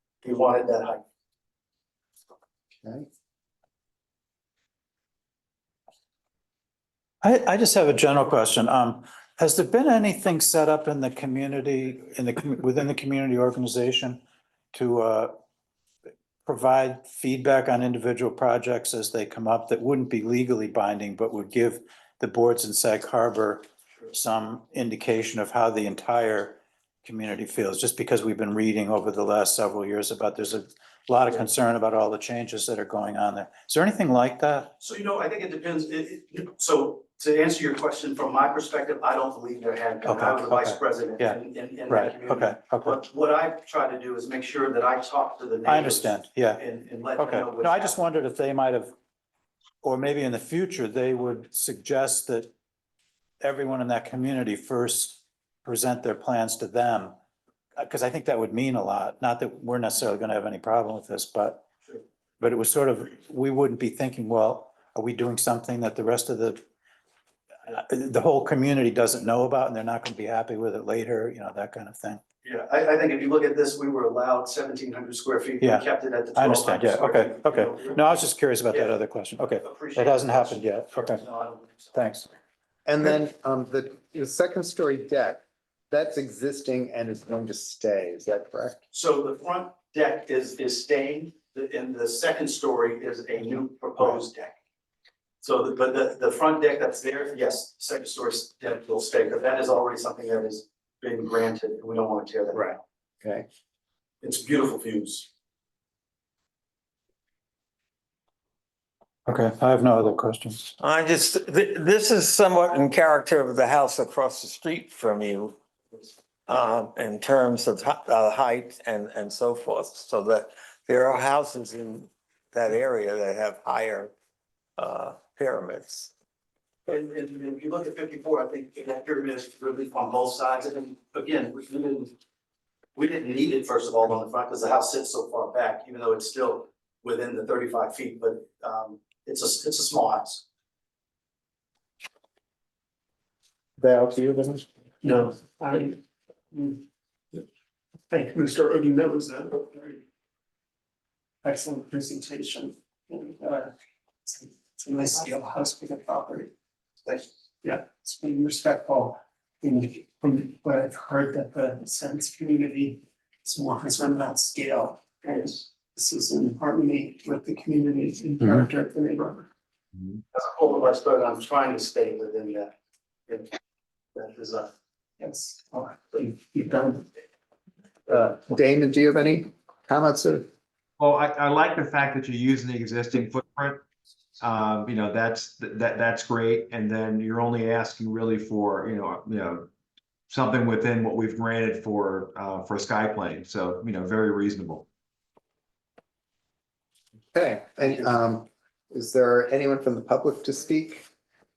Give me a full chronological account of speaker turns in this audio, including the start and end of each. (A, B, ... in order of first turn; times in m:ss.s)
0:00.2-0:01.0 A
0:02.8-0:03.1 B
0:07.2-0:14.2 C
0:14.7-0:15.3 C
0:16.4-0:34.7 C
0:34.8-0:48.0 A
0:40.0-0:43.0 C
0:45.7-0:46.6 C
0:47.2-0:48.9 C
0:49.8-0:52.5 C
0:53.4-0:57.2 C
0:57.8-1:01.7 C
1:02.4-1:06.6 C
1:07.6-1:12.2 C
1:12.4-1:18.0 A
1:15.6-1:21.2 C
1:18.7-1:22.0 A
1:21.9-1:22.3 C
1:22.9-1:28.8 B
1:28.9-1:34.6 A
1:35.4-1:42.8 A
1:42.5-1:43.5 B
1:44.2-1:45.3 A
1:49.2-1:50.7 C
1:50.8-1:55.6 D
1:56.5-2:04.1 D
2:04.8-2:06.1 D
2:06.9-2:12.1 A
2:13.0-2:20.4 A
2:23.8-2:24.7 B
2:25.0-2:26.0 E
2:26.5-2:26.8 E
2:28.1-2:30.0 E
2:31.4-2:33.7 E
2:34.2-2:36.5 E
2:37.6-2:49.5 E
2:50.3-2:52.7 A
2:54.1-2:54.7 A
2:55.2-2:57.0 E
2:58.1-3:00.5 B
3:01.0-3:03.8 F
3:04.4-3:09.7 F
3:10.3-3:14.8 F
3:17.3-3:21.0 B